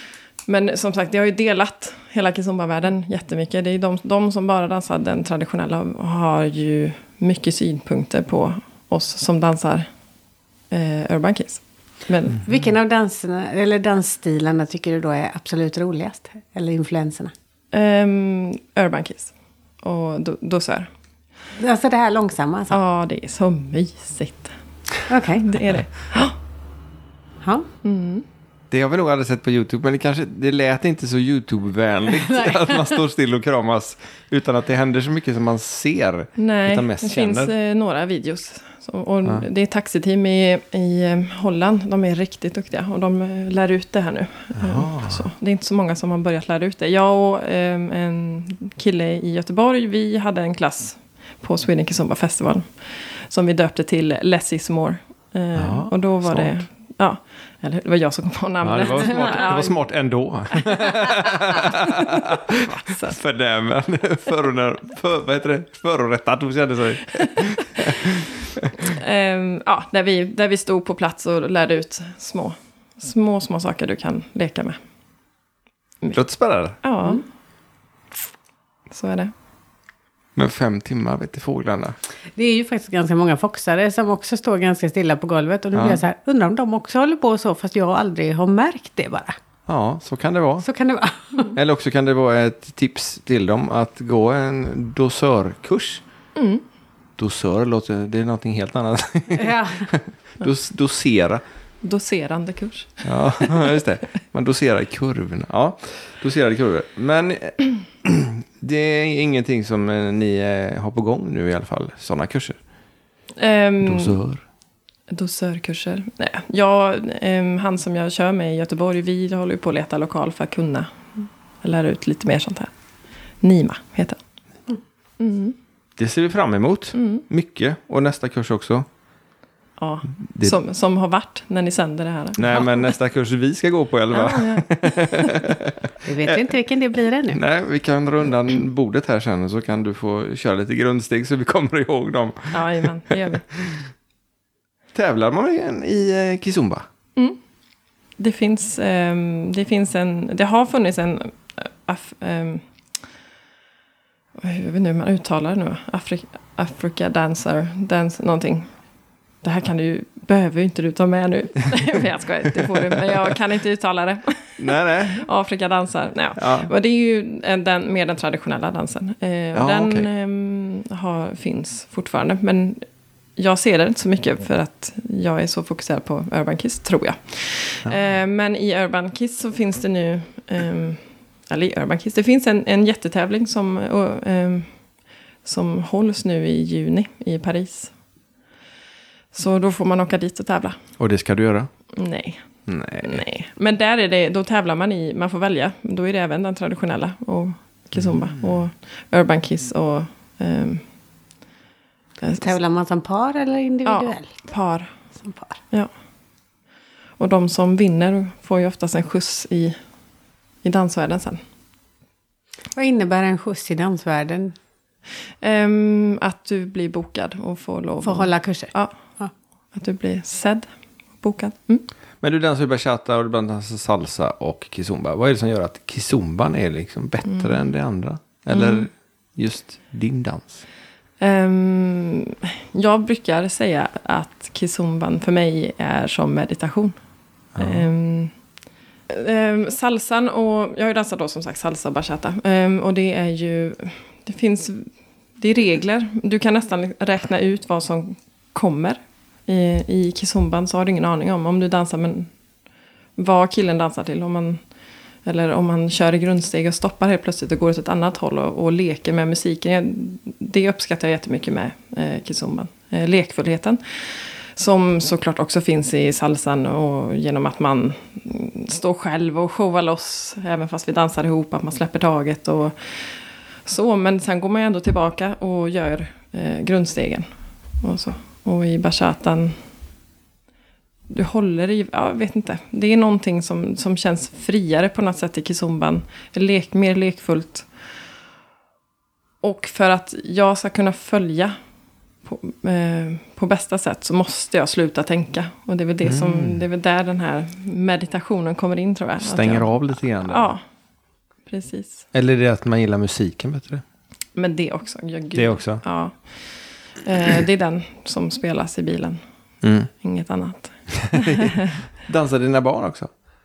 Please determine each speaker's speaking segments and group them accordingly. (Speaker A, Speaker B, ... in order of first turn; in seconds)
Speaker A: 0.5-9.9, 10.7-12.4, 17.7-20.9, 22.7-24.5, 25.4-26.4, 27.8-28.2, 36.4-52.7, 53.3-59.8, 61.6-63.2, 68.8-74.8, 76.8-77.2, 78.9-79.3, 96.4-96.6, 101.8-103.8, 113.4-114.2, 115.1-122.7, 123.4-124.2, 125.2-125.6, 127.0-127.2, 129.8-132.9, 134.1-135.5, 142.5-143.4, 148.2-152.6, 154.4-158.7, 159.4-172.8, 173.4-184.7, 185.4-187.9, 189.3-190.8, 191.9-192.4, 193.0-200.8, 202.2-202.5, 203.8-204.9, 207.2-209.8, 210.6-211.4, 215.4-218.9, 219.7-220.7, 221.2-221.9, 227.3-227.5, 228.5-228.9, 231.2-237.0, 237.6-238.3, 239.1-252.3, 253.2-254.6, 255.2-272.8, 273.7-277.3, 277.8-279.6, 281.1-287.7, 289.4-291.6, 292.2-299.7, 300.2-300.6, 301.5-302.1, 304.4-306.2, 307.0-309.2, 310.0-311.8
Speaker B: 12.4-17.3, 21.6-22.8, 25.1-25.5, 27.4-27.7, 32.2-33.0, 82.4-89.4, 90.6-91.5, 99.3-99.9, 136.1-137.4, 202.4-204.3, 205.2-205.6, 212.8-214.6, 218.0-219.3
Speaker C: 28.7-37.5, 44.6-45.3, 55.6-56.5, 58.6-68.9, 76.1-76.8, 80.4-82.0, 85.8-86.0, 89.7-90.7, 91.5-96.0, 97.2-101.4, 103.0-112.6, 113.8-114.4, 126.0-128.9, 130.3-130.6, 132.4-136.5, 137.3-143.8, 144.9-146.9, 162.8-163.2, 164.6-165.3, 166.4-166.7, 169.5-170.1, 191.0-191.7, 192.7-193.2, 222.2-230.6, 237.6-237.9, 296.0-296.6, 299.2-300.5, 302.1-303.8, 305.4-305.8, 309.6-309.9, 310.9-313.1